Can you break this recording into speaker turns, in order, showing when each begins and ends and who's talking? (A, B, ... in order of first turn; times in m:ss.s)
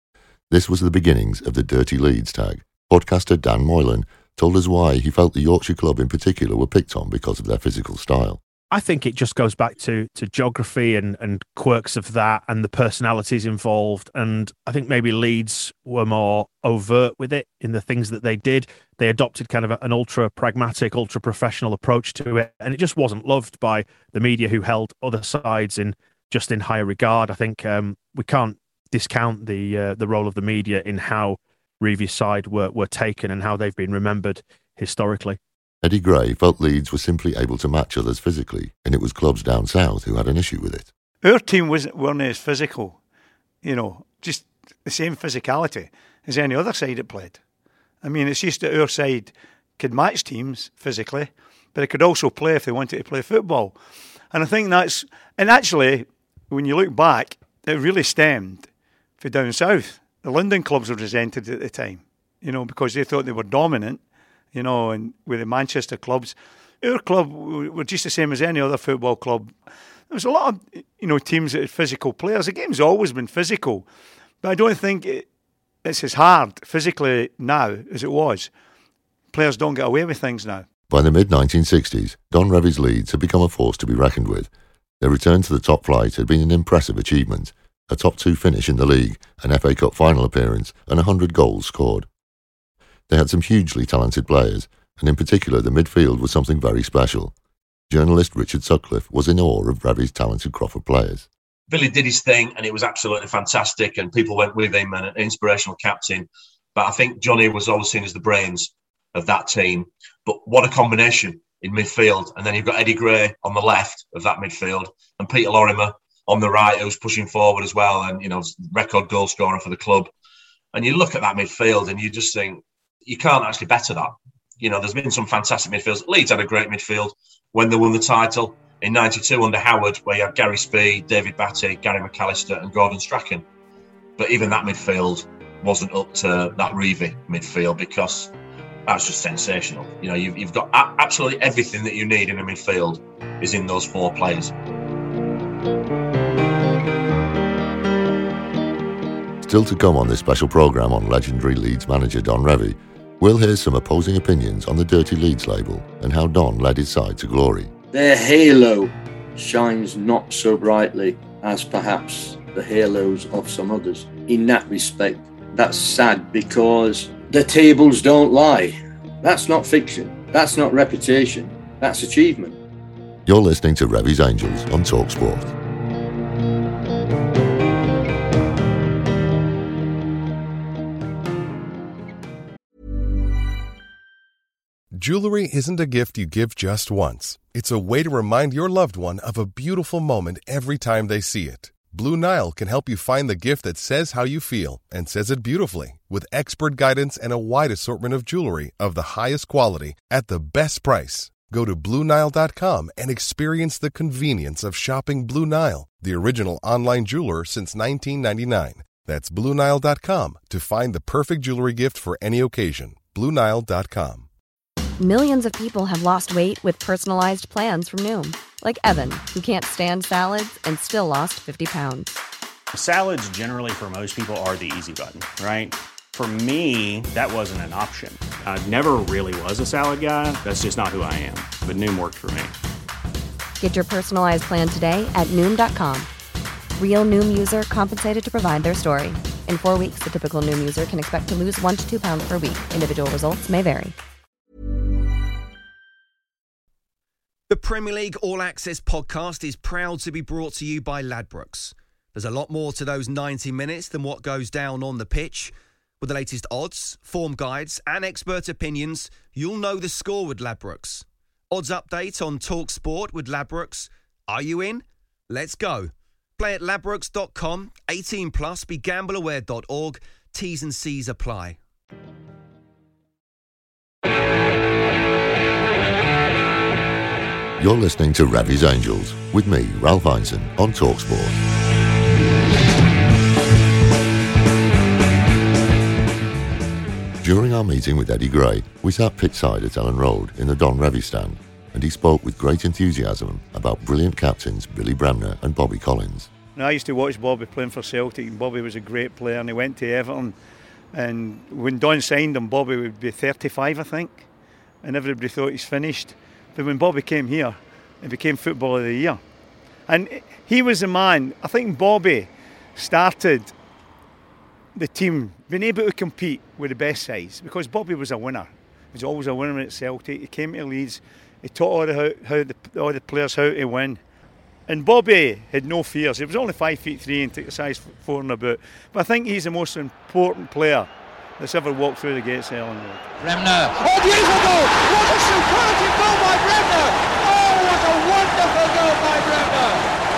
0:00.5-0:08.4 A
0:08.7-0:35.4 B
0:35.8-0:40.9 A
0:41.2-0:43.0 C
0:43.6-0:47.4 C
0:48.0-0:53.7 C
0:54.3-1:04.0 C
1:04.5-1:09.5 C
1:10.1-1:13.9 C
1:14.4-1:15.3 C
1:15.8-1:18.5 C
1:19.3-1:20.6 C
1:20.9-1:32.0 A
1:33.1-1:37.3 A
1:37.9-1:41.3 A
1:41.7-2:00.1 D
2:00.7-2:13.4 D
2:14.2-2:18.3 D
2:18.9-2:24.5 D
2:29.4-2:37.7 A
2:37.9-2:52.6 E
2:53.2-2:55.5 A
3:04.9-3:34.3 F
3:35.0-3:42.2 G
3:42.7-3:52.6 H
3:53.6-3:56.1 G
3:56.8-4:03.9 G
4:07.5-4:31.6 I
4:37.6-4:41.4 A
4:47.2-4:56.3 A
4:56.5-5:00.3 C
5:00.9-5:04.2 C
5:04.8-5:09.2 C
5:09.9-5:13.5 C
5:14.7-5:24.0 C
5:24.7-5:33.0 C
5:33.2-5:39.9 J